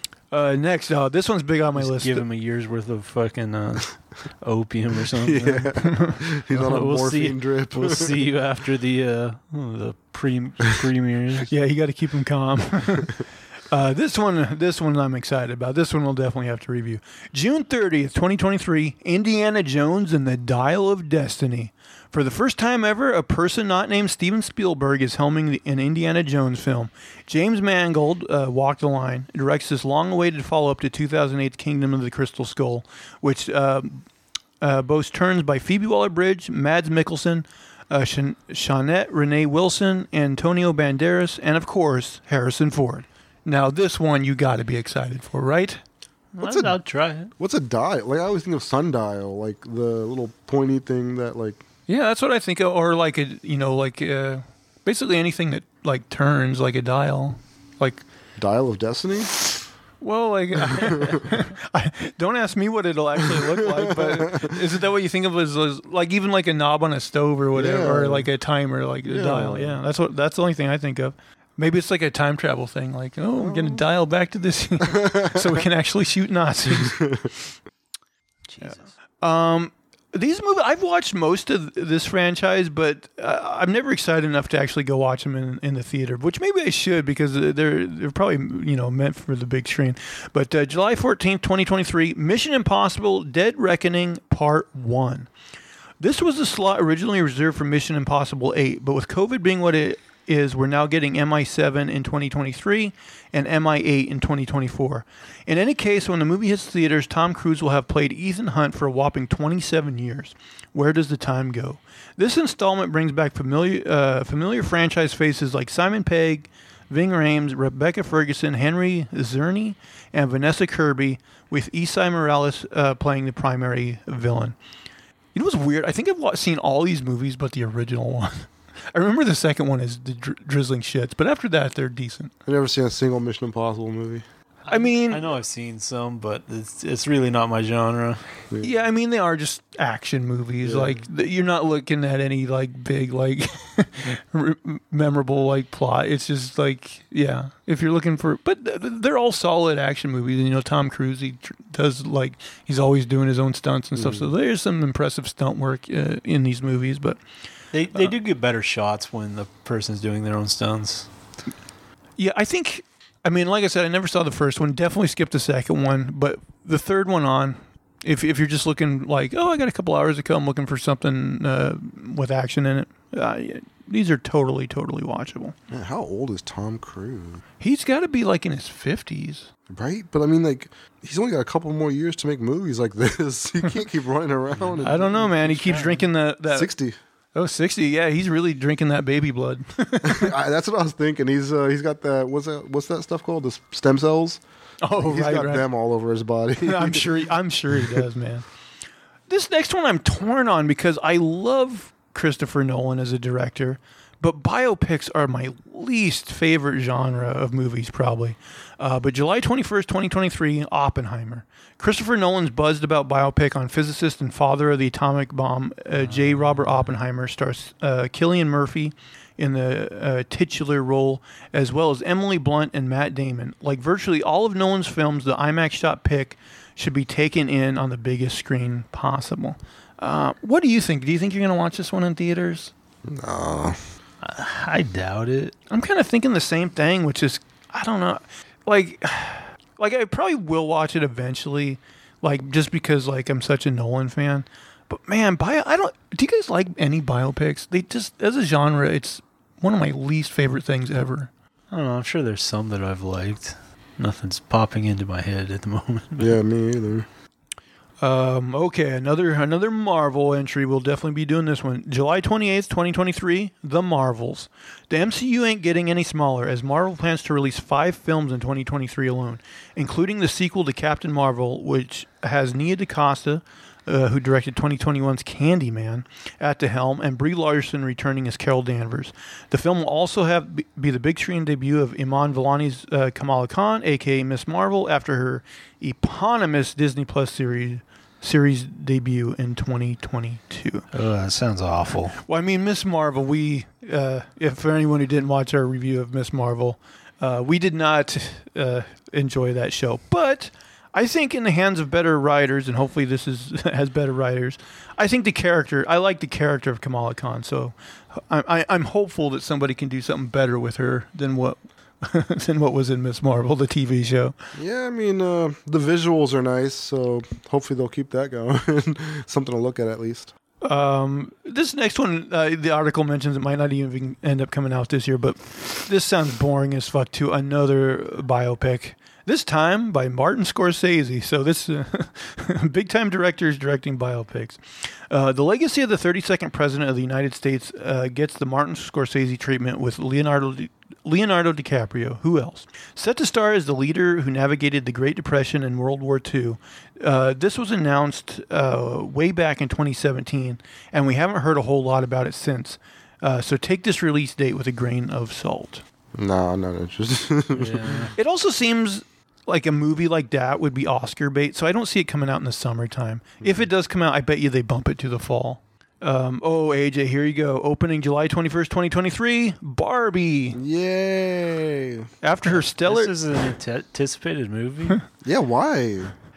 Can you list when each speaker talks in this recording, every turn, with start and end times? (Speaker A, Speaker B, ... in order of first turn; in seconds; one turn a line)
Speaker A: 0.3-2.2
Speaker B: 1.8-5.7
Speaker C: 5.2-8.1
Speaker A: 5.8-6.2
Speaker B: 6.5-11.5
Speaker A: 11.5-34.1
Speaker A: 34.6-45.8
Speaker B: 46.4-47.3
Speaker C: 46.4-46.8
Speaker C: 47.4-51.6
Speaker A: 51.9-58.0
Speaker C: 58.4-59.4
Speaker A: 60.0-77.1
Speaker C: 60.7-61.3
Speaker C: 63.2-64.6
Speaker C: 67.5-68.3
Speaker C: 69.0-69.8
Speaker C: 73.4-73.8
Speaker C: 75.0-75.6
Speaker B: 78.5-78.9
Speaker A: 78.6-95.3
Speaker A: 96.0-124.6
Speaker A: 125.3-132.3
Speaker C: 132.4-134.2
Speaker B: 134.7-138.4
Speaker A: 134.7-135.3
Speaker A: 138.6-157.2
Speaker C: 140.6-141.0
Speaker C: 153.9-154.3
Speaker B: 157.7-161.1
Speaker A: 162.2-175.6
Speaker C: 175.7-177.4
Speaker A: 177.6-179.5
Speaker C: 179.7-186.0
Speaker B: 184.7-185.0
Speaker A: 184.8-186.7
Speaker C: 186.5-187.0
Speaker A: 187.3-190.3
Speaker C: 190.0-194.4
Speaker A: 194.8-195.7
Speaker C: 195.0-197.2
Speaker A: 196.6-198.5
Speaker A: 199.3-232.7
Speaker C: 233.1-233.8
Speaker B: 234.2-235.5
Speaker A: 235.7-251.3
Speaker B: 251.7-256.3
Speaker C: 256.2-257.1
Speaker A: 258.0-290.9
Speaker B: 290.9-292.2
Speaker A: 292.2-314.4
Speaker C: 314.6-320.3
Speaker A: 320.6-355.9
Speaker C: 356.1-358.1
Speaker B: 357.6-358.1
Speaker A: 358.2-370.6
Speaker C: 363.4-363.7
Speaker C: 370.5-372.1
Speaker A: 372.2-373.1
Speaker B: 372.8-375.0
Speaker C: 375.2-376.1